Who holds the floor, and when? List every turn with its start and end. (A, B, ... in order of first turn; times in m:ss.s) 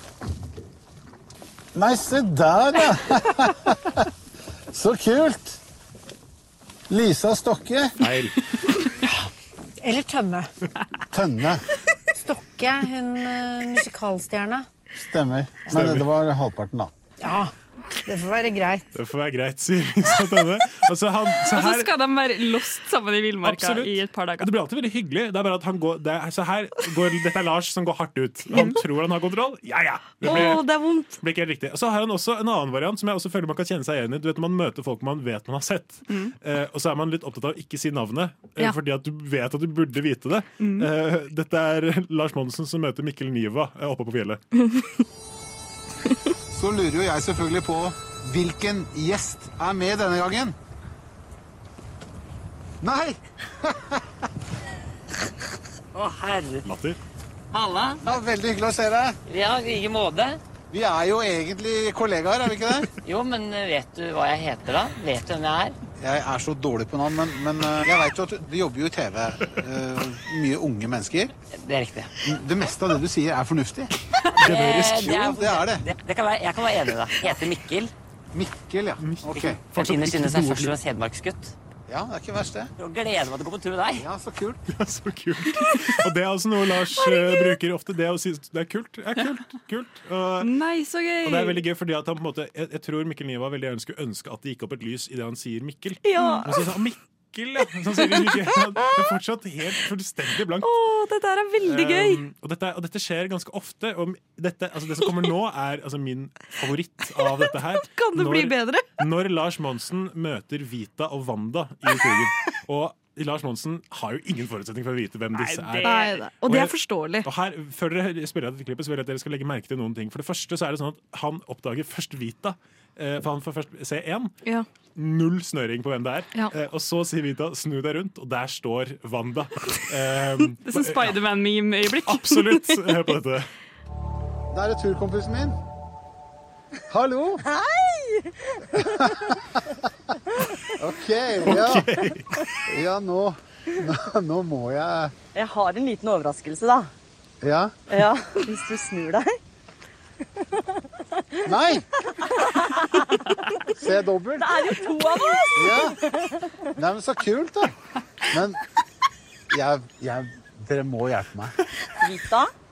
0:01.8-0:03.5 A
0:04.7-0:05.6 A
0:06.9-0:07.9 A
0:08.0-0:08.4 B
0:09.8-0:10.5 C
0:11.1-0:11.6 A
0:12.2-0:14.7 C
0:15.0-0:16.9 A
0:15.7-0:16.1 B
0:17.2-0:17.5 C
0:18.0-0:18.9 C
0:19.0-0:21.9 B
0:21.4-0:24.5 D
0:23.4-0:30.7 B
0:28.5-0:28.8 D
0:30.2-0:31.2 E
0:31.2-0:44.4 B
0:40.6-0:40.9 D
0:46.5-0:50.6 A
0:52.8-0:53.7 A
0:56.0-0:56.6 F
0:56.7-0:57.0 B
0:57.5-0:58.0 F
0:58.0-0:59.2 A
0:59.3-1:00.4 F
1:00.7-1:02.9 A
1:03.0-1:05.8 F
1:06.0-1:11.3 A
1:11.5-1:12.1 F
1:12.2-1:13.9 A
1:14.4-1:17.9 F
1:14.4-1:15.8 A
1:18.3-1:19.7 A
1:19.0-1:20.8 B
1:19.3-1:21.5 F
1:21.9-1:22.7 A
1:22.8-1:24.1 F
1:24.0-1:24.6 A
1:24.7-1:30.5 B
1:27.0-1:27.6 E
1:30.4-1:31.6 D
1:31.2-1:40.7 B
1:36.0-1:36.7 E
1:38.0-1:39.1 E
1:40.6-1:42.2 E
1:41.6-2:04.3 B
1:47.4-1:48.9 E
1:55.3-1:56.3 D
1:55.8-1:57.3 E
2:05.0-2:11.2 B
2:10.6-2:12.5 D
2:12.0-2:13.5 B
2:14.5-2:15.6 A
2:16.9-2:17.4 A
2:17.4-2:19.0 G
2:20.8-2:21.9 A
2:21.5-2:22.3 B
2:22.7-2:25.1 A
2:25.3-2:26.9 G
2:27.4-2:27.7 A
2:27.9-2:29.4 G
2:31.5-2:31.8 A
2:32.2-2:33.1 G
2:33.8-2:34.6 A
2:34.4-2:36.5 G
2:35.5-2:36.0 A
2:36.8-2:37.7 A
2:38.3-2:38.6 A
2:39.5-2:41.5 A
2:42.0-2:42.5 G